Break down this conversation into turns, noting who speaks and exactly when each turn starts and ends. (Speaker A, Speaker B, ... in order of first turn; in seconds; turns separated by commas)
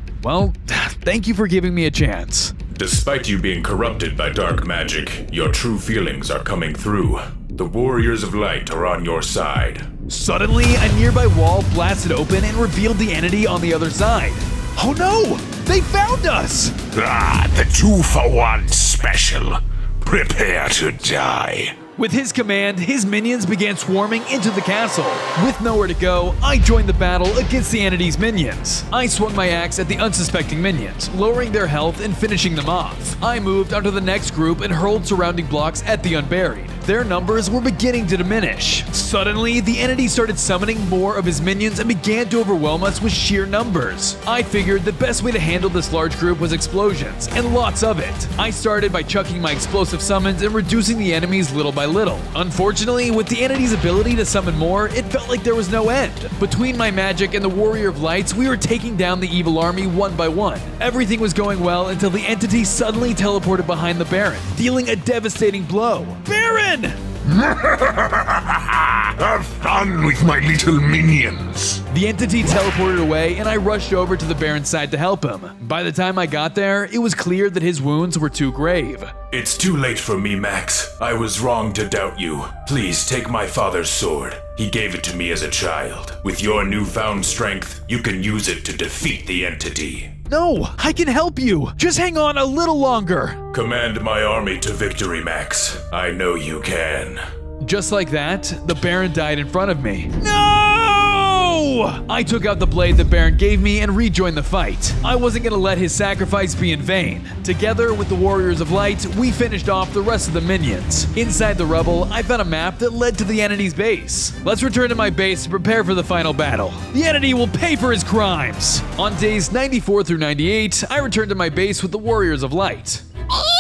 Speaker A: 0.2-2.5, Speaker B: 2.7-9.9, Speaker A: 10.1-16.7, Speaker C: 16.9-21.8, Speaker A: 22.0-67.0, Speaker C: 67.2-71.8, Speaker A: 71.9-79.1, Speaker B: 79.3-90.1, Speaker A: 90.3-93.4, Speaker B: 93.5-97.2, Speaker A: 97.6-123.0